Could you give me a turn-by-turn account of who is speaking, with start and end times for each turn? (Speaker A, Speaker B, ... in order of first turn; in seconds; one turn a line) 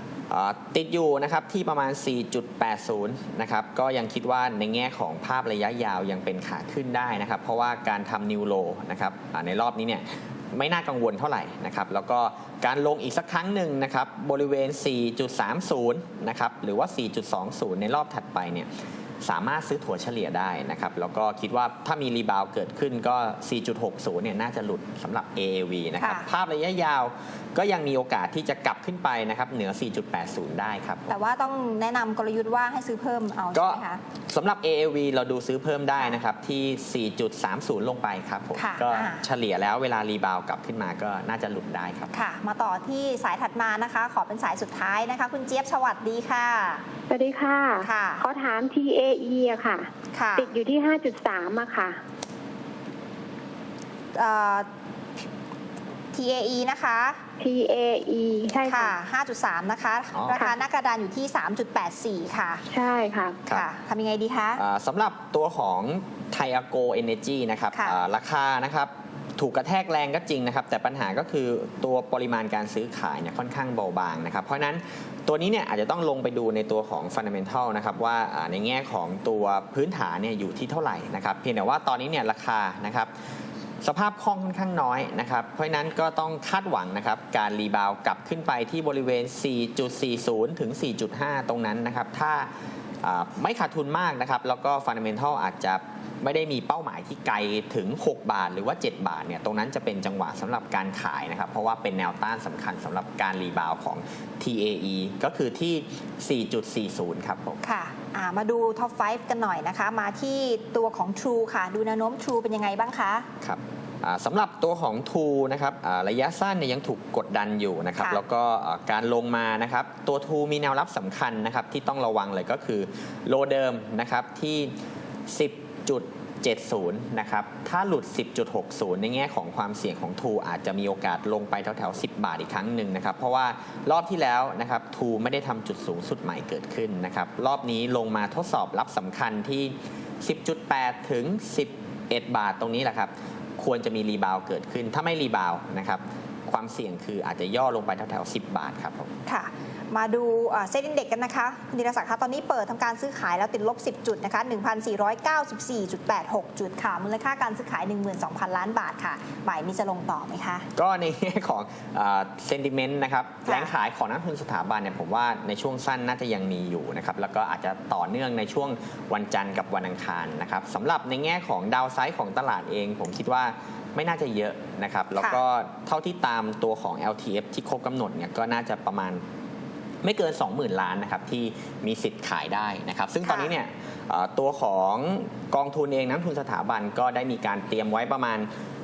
Speaker A: 0.3-18.7
Speaker A: 19.2-31.1
Speaker B: 26.0-26.3
Speaker B: 31.1-34.0
Speaker A: 33.5-42.1
Speaker B: 38.5-39.2
Speaker B: 42.1-46.8
Speaker C: 47.1-52.0
Speaker B: 47.8-48.2
Speaker B: 50.1-50.5
Speaker B: 54.1-54.7
Speaker B: 56.1-57.2
Speaker C: 57.4-59.0
Speaker B: 58.6-62.6
Speaker A: 60.1-60.5
Speaker C: 62.7-63.4
Speaker B: 63.5-64.6
Speaker A: 64.5-83.1
Speaker B: 67.7-68.0
Speaker A: 83.8-92.5
Speaker A: 93.0-107.6
Speaker B: 107.6-113.3
Speaker A: 113.4-124.7
Speaker A: 125.3-149.1
Speaker B: 149.3-160.7
Speaker A: 160.7-179.2
Speaker B: 163.4-163.7
Speaker A: 180.0-188.5
Speaker B: 183.2-183.5